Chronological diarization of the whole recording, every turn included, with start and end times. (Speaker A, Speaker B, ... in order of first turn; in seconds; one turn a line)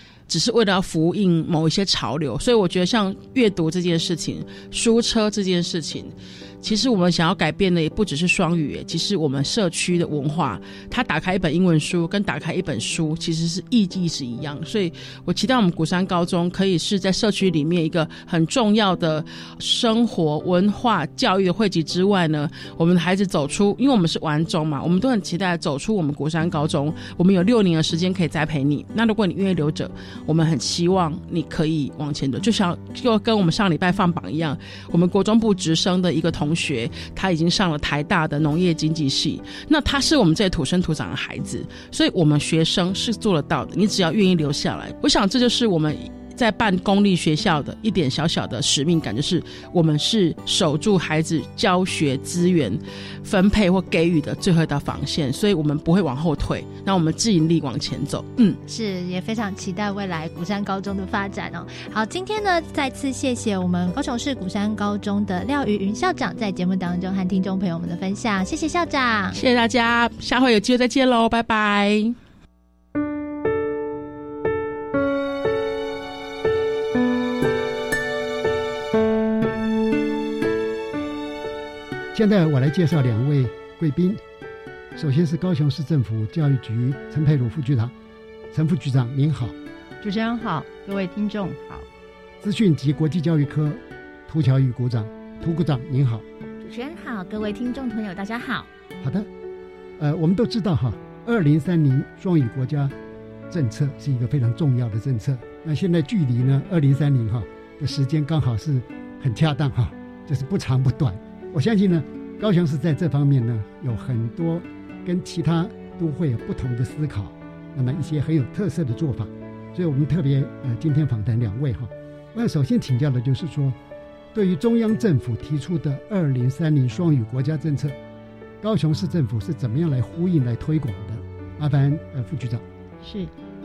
Speaker A: 0.3-58.6
Speaker B: 58.6-69.4
Speaker A: 69.3-72.2
Speaker C: 82.1-84.2
Speaker C: 85.0-87.9
Speaker C: 88.5-89.6
Speaker D: 90.0-91.9
Speaker C: 92.4-96.2
Speaker E: 96.6-98.7
Speaker C: 99.0-99.3
Speaker C: 100.0-102.9
Speaker C: 103.5-123.8
Speaker C: 124.3-128.0
Speaker C: 128.6-132.6
Speaker D: 133.0-133.3